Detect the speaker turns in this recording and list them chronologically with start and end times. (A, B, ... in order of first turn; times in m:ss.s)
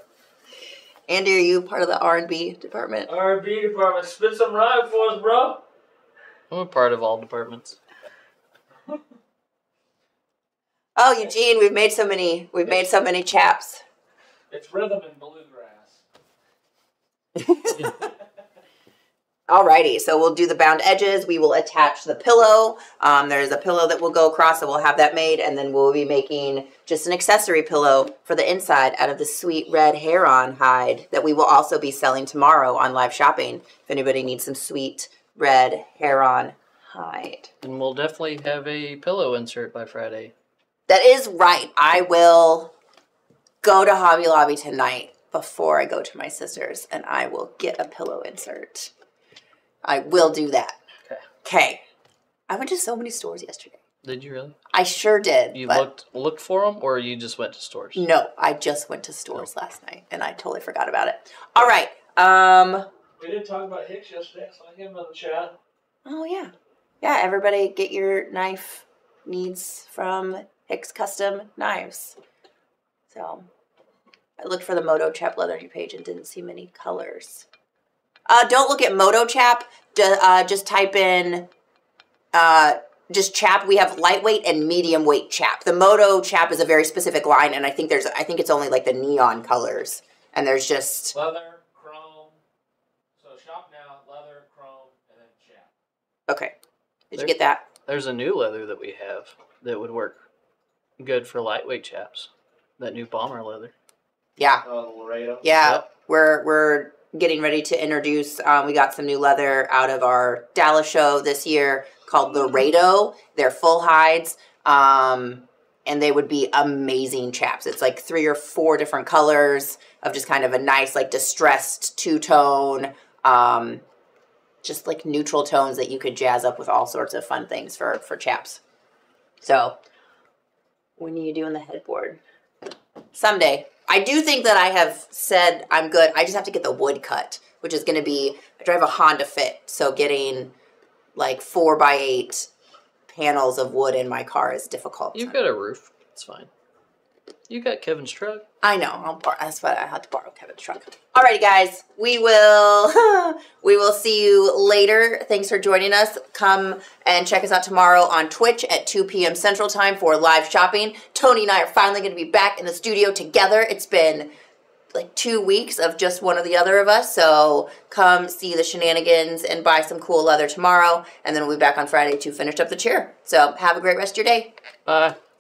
0:01.1-0:03.1 A
0:03.1-0:05.6 B
0:06.5-0:07.8 C
0:11.0-0:13.8 A
0:14.5-0:16.0 B
0:17.4-0:17.9 A
0:19.5-0:37.5 A
0:37.6-0:40.3 C
0:40.9-0:42.7 A
0:43.6-0:48.9 A
0:49.8-0:50.8 A
0:51.4-0:51.8 A
0:52.5-0:53.8 A
0:54.0-0:54.6 C
0:54.7-0:55.8 A
0:55.5-0:58.1 C
0:58.0-1:02.9 A
1:03.2-1:05.6 B
1:06.0-1:12.2 A
1:13.1-1:13.5 A
1:14.4-1:17.5 A
1:18.3-1:21.5 A
1:22.3-1:31.2 A
1:31.1-1:32.4 B
1:33.2-1:35.7 B
1:36.3-1:36.5 A
1:37.1-1:37.6 A
1:37.2-1:40.2 C
1:41.0-1:43.7 C
1:44.4-1:44.6 A
1:44.6-1:45.4 B
1:45.4-2:03.8 A
2:04.6-2:08.6 A
2:09.4-2:09.8 A
2:11.0-2:12.2 A
2:13.1-2:20.5 A
2:21.2-2:22.5 A
2:23.1-2:25.4 A
2:25.1-2:26.5 C
2:27.5-2:28.5 C
2:28.6-2:44.3 A
2:44.9-2:54.5 A
2:54.9-2:55.2 C